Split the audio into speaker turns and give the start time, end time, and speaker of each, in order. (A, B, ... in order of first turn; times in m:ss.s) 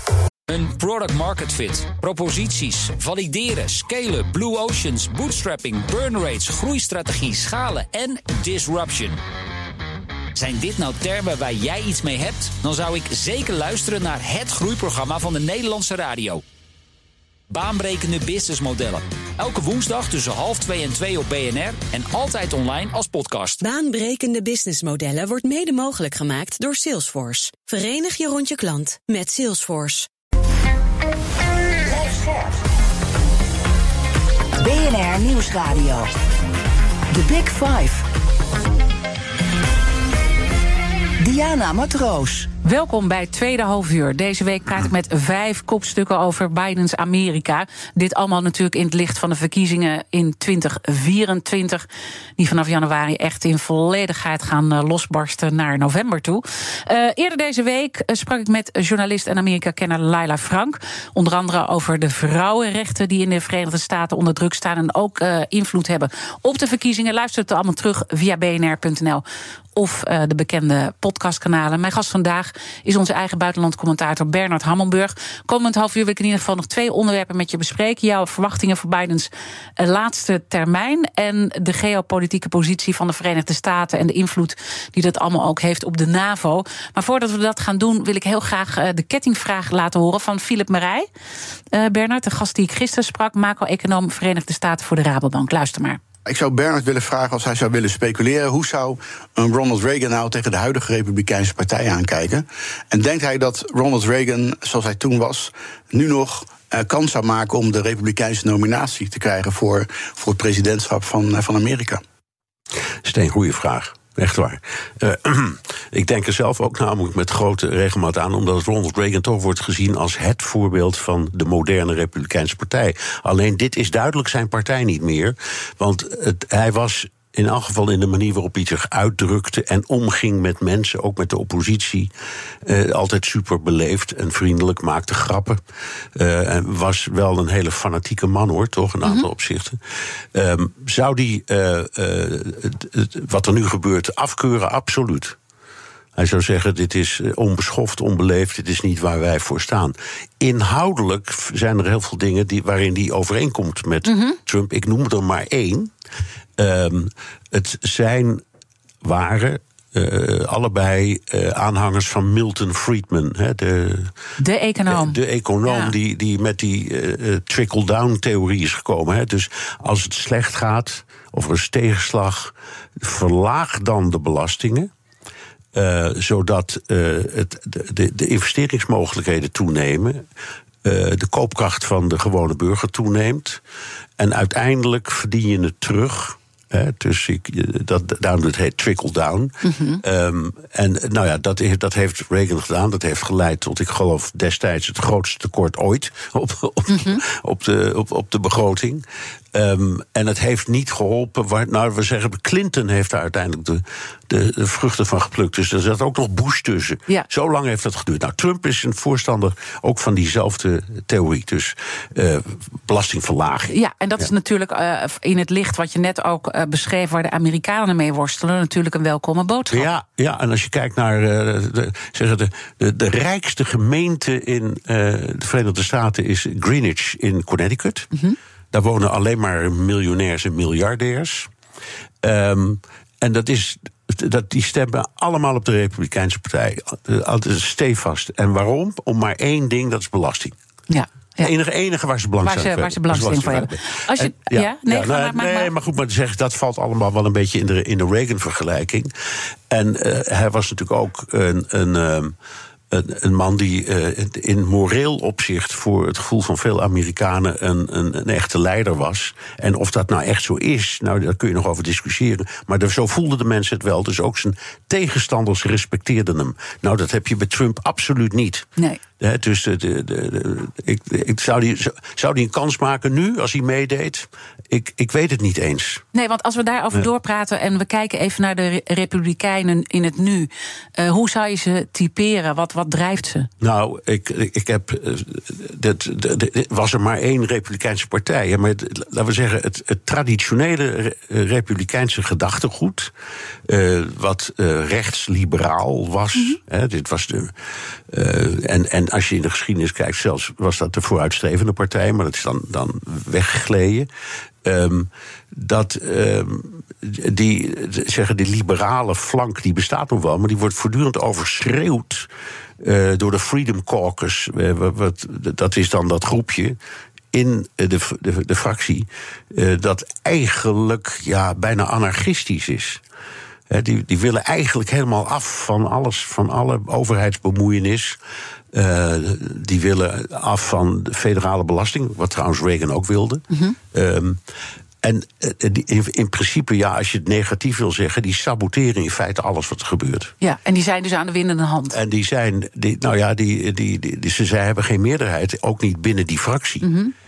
0:00.5-0:09.2 A
0:10.3-0:16.4 A
0:17.5-0:23.6 A
0:23.6-0:30.1 B
0:31.8-0:32.6 C
0:34.6-0:36.1 C
0:37.1-0:38.0 C
0:41.2-0:42.5 C
0:42.6-0:51.8 D
0:52.4-1:09.2 D
1:09.7-1:31.1 D
1:31.7-1:36.0 D
1:36.2-1:52.0 E
1:53.0-2:12.1 F
2:12.6-2:15.6 F
2:16.1-2:19.8 F
2:20.3-2:25.4 F
2:26.1-2:35.9 F
2:34.0-2:34.4 D
2:36.6-2:38.4 F
2:39.0-2:44.1 F
2:44.4-2:45.9 D
2:44.9-2:54.9 F
2:55.7-3:00.2 F
3:00.8-3:03.6 F
3:04.2-3:34.3 F
3:09.6-3:10.0 D
3:16.9-3:17.2 D
3:33.7-3:39.9 D
3:39.7-3:48.1 F
3:48.7-3:51.5 F
3:52.2-4:00.5 F
4:00.9-4:01.5 D
4:01.4-4:12.3 F
4:02.4-4:05.7 D
4:12.9-4:28.7 F
4:29.2-4:36.0 F
4:36.1-4:43.5 D
4:43.6-4:53.1 F
4:53.7-4:57.5 F
4:58.1-5:04.1 F
5:04.6-5:16.8 F
5:17.3-5:23.0 F
5:23.7-5:28.2 F
5:28.7-5:34.4 F
5:33.5-5:33.8 D
5:35.0-5:40.3 F
5:40.4-5:42.0 D
5:41.9-5:46.8 F
5:46.8-5:47.1 D